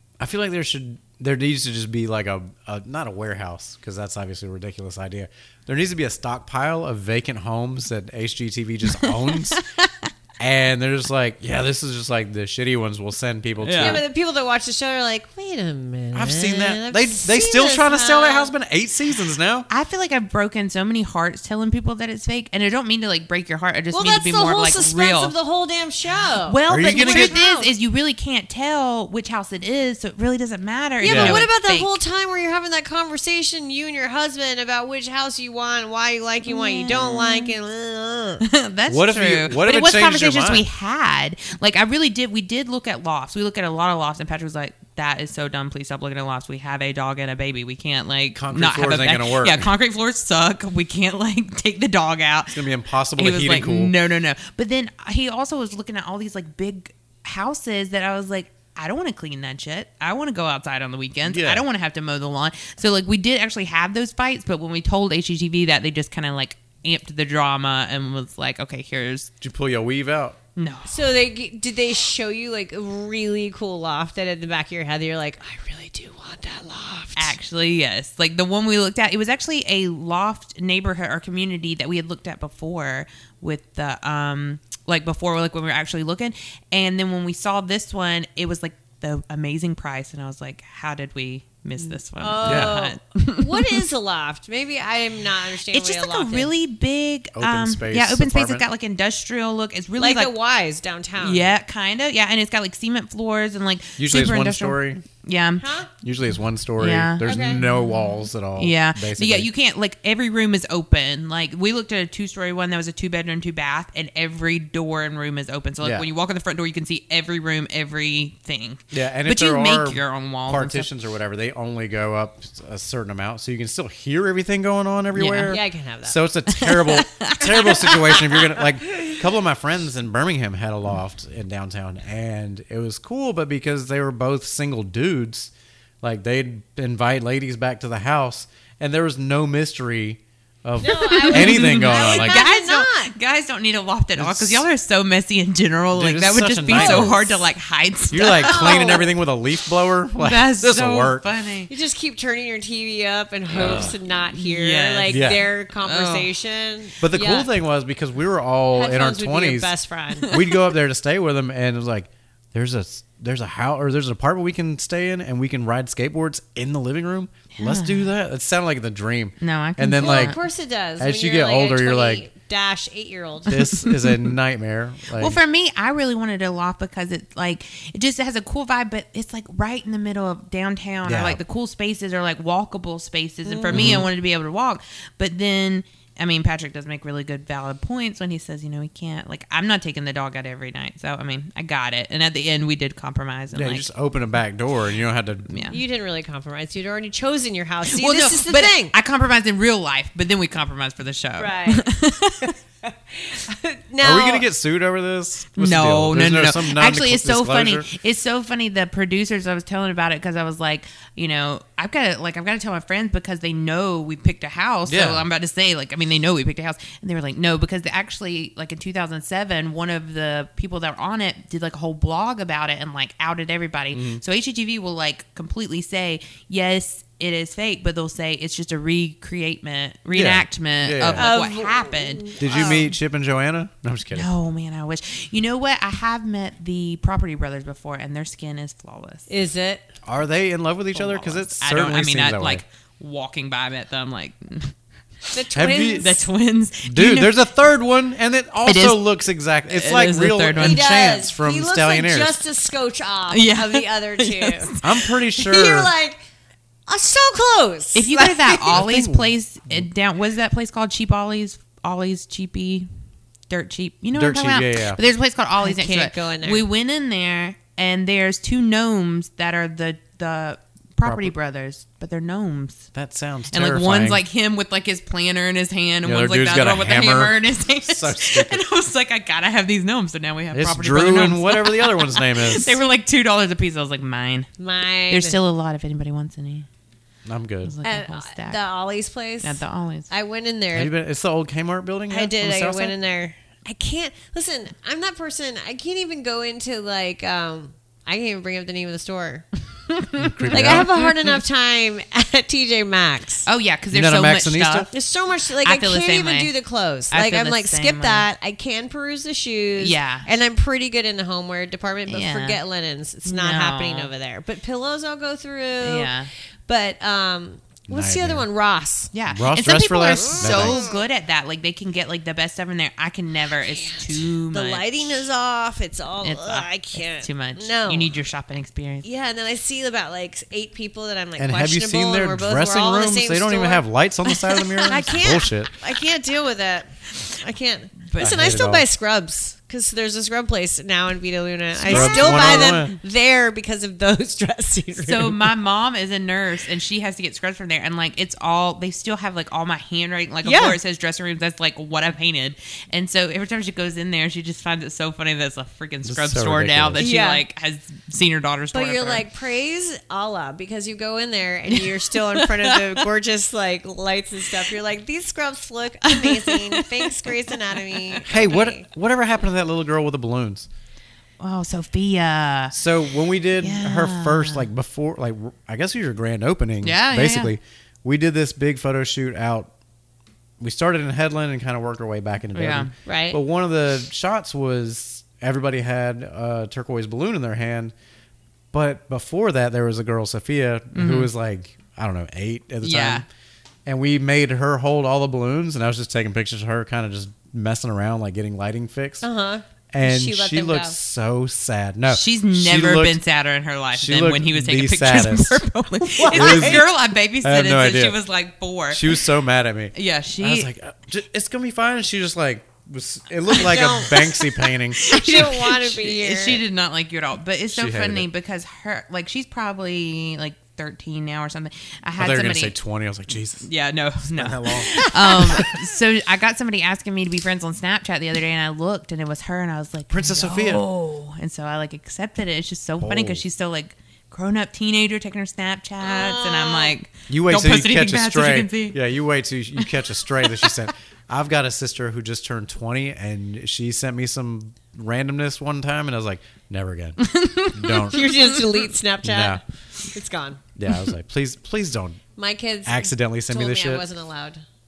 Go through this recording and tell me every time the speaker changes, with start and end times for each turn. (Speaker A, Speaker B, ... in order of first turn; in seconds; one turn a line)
Speaker A: 0.2-9.6
Speaker B: 8.9-10.1
Speaker A: 10.4-14.1
Speaker B: 13.6-14.0
Speaker C: 13.8-18.5
Speaker A: 16.1-19.7
Speaker B: 19.7-25.4
Speaker C: 23.9-27.7
Speaker B: 26.4-32.0
Speaker A: 26.7-27.4
Speaker C: 31.0-38.4
Speaker A: 31.1-31.4
Speaker B: 36.5-37.5
Speaker B: 38.4-52.6
Speaker A: 38.9-40.7
Speaker A: 48.3-49.7
Speaker A: 52.5-53.9
Speaker B: 53.2-69.3
Speaker A: 61.3-61.6
Speaker A: 69.4-70.4
Speaker B: 70.6-71.1
Speaker C: 70.9-77.3
Speaker B: 77.2-93.8
Speaker C: 91.8-96.5
Speaker A: 92.4-92.8
Speaker B: 95.7-100.3
Speaker A: 97.3-98.7
Speaker C: 100.0-101.5
Speaker B: 101.2-105.7
Speaker A: 104.0-105.0
Speaker C: 105.6-105.9
Speaker A: 106.0-109.5
Speaker B: 106.8-120.9
Speaker C: 107.2-107.6
Speaker A: 115.8-116.1
Speaker A: 118.9-135.5
Speaker B: 125.2-125.6
Speaker C: 125.5-126.2
Speaker B: 126.6-128.2
Speaker A: 136.0-142.5
Speaker C: 140.8-143.1
Speaker B: 140.9-149.0
Speaker A: 144.2-144.7
Speaker A: 145.9-147.4
Speaker C: 146.7-147.2
Speaker A: 148.1-151.2
Speaker C: 148.4-149.2
Speaker B: 150.2-151.7
Speaker C: 151.7-157.5
Speaker A: 153.6-153.9
Speaker B: 153.6-156.3
Speaker A: 155.1-155.4
Speaker A: 157.0-159.7
Speaker C: 158.7-160.3
Speaker B: 160.2-160.7
Speaker A: 160.3-170.4
Speaker B: 167.6-168.1
Speaker B: 169.4-170.4
Speaker C: 169.9-173.6
Speaker A: 171.0-172.2
Speaker B: 173.5-174.3
Speaker A: 173.5-175.4
Speaker B: 175.2-193.9
Speaker A: 181.1-181.4
Speaker C: 183.4-184.0
Speaker A: 183.7-184.1
Speaker A: 193.5-195.5
Speaker B: 195.5-195.8
Speaker C: 195.7-198.9
Speaker B: 197.9-202.6
Speaker C: 201.4-201.9
Speaker C: 202.9-204.4
Speaker A: 204.0-207.9
Speaker B: 205.5-232.4
Speaker A: 214.9-215.3
Speaker A: 223.9-224.2
Speaker A: 230.1-231.3
Speaker C: 231.1-232.9
Speaker A: 232.4-234.3
Speaker B: 234.1-239.3
Speaker C: 239.3-239.9
Speaker A: 240.1-242.6
Speaker C: 240.9-241.4
Speaker B: 241.6-244.8
Speaker C: 245.3-246.3
Speaker A: 245.5-246.1
Speaker B: 245.9-247.4
Speaker A: 246.8-252.4
Speaker B: 248.7-249.1
Speaker B: 249.7-250.9
Speaker C: 250.6-254.7
Speaker B: 253.3-254.9
Speaker A: 254.8-255.9
Speaker C: 255.3-256.2
Speaker C: 256.9-258.8
Speaker B: 257.9-262.9
Speaker A: 258.7-259.9
Speaker B: 263.5-272.9
Speaker A: 264.1-265.0
Speaker C: 265.6-266.7
Speaker A: 271.0-271.3
Speaker A: 272.9-274.2
Speaker B: 273.5-284.5
Speaker A: 276.1-278.6
Speaker A: 280.5-282.8
Speaker C: 284.6-285.4
Speaker B: 285.1-286.7
Speaker A: 287.2-287.7
Speaker B: 287.6-288.6
Speaker C: 287.8-290.9
Speaker B: 289.4-290.1
Speaker A: 290.7-293.0
Speaker C: 292.1-299.5
Speaker B: 299.9-301.4
Speaker A: 300.2-300.9
Speaker C: 300.5-303.5
Speaker B: 303.4-304.9
Speaker A: 303.9-304.9
Speaker C: 304.9-316.1
Speaker B: 305.6-306.5
Speaker B: 307.1-308.3
Speaker B: 309.8-310.3
Speaker B: 312.1-312.6
Speaker B: 313.2-314.1
Speaker B: 315.8-316.3
Speaker C: 316.7-319.1
Speaker A: 317.9-318.4
Speaker B: 319.1-325.2
Speaker A: 319.3-320.8
Speaker C: 320.1-321.0
Speaker C: 323.7-328.1
Speaker B: 326.2-329.1
Speaker C: 329.0-345.5
Speaker A: 331.4-335.7
Speaker A: 338.2-338.9
Speaker B: 341.8-342.8
Speaker A: 341.9-342.9
Speaker B: 345.0-359.2
Speaker C: 350.4-350.8
Speaker A: 356.0-357.1
Speaker C: 357.0-357.4
Speaker C: 358.7-368.9
Speaker B: 361.7-363.1
Speaker B: 366.1-368.2
Speaker A: 368.3-370.7
Speaker B: 371.4-372.8
Speaker A: 372.7-379.7
Speaker B: 373.6-374.7
Speaker B: 376.8-377.5
Speaker A: 380.6-387.9
Speaker B: 382.5-382.9
Speaker C: 383.1-383.4
Speaker A: 388.7-393.2
Speaker B: 390.9-391.3
Speaker B: 392.8-393.2
Speaker A: 393.9-399.2
Speaker C: 399.2-400.9
Speaker A: 399.9-403.2
Speaker B: 402.1-409.2
Speaker A: 403.9-405.6
Speaker C: 406.2-406.9
Speaker A: 406.2-408.2
Speaker A: 408.9-415.6
Speaker B: 409.9-410.7
Speaker B: 413.5-414.3
Speaker C: 413.6-414.3
Speaker B: 414.9-422.8
Speaker C: 415.1-416.6
Speaker A: 417.7-418.3
Speaker A: 422.2-423.7
Speaker B: 423.6-439.0
Speaker A: 424.3-425.8
Speaker C: 424.9-425.6
Speaker A: 430.1-430.8
Speaker A: 433.0-433.4
Speaker C: 436.0-436.9
Speaker A: 437.3-448.3
Speaker B: 439.8-440.7
Speaker B: 447.2-448.6
Speaker C: 448.1-449.6
Speaker A: 449.2-449.6
Speaker C: 450.1-450.6
Speaker A: 450.8-452.2
Speaker C: 452.4-454.6
Speaker A: 452.9-454.0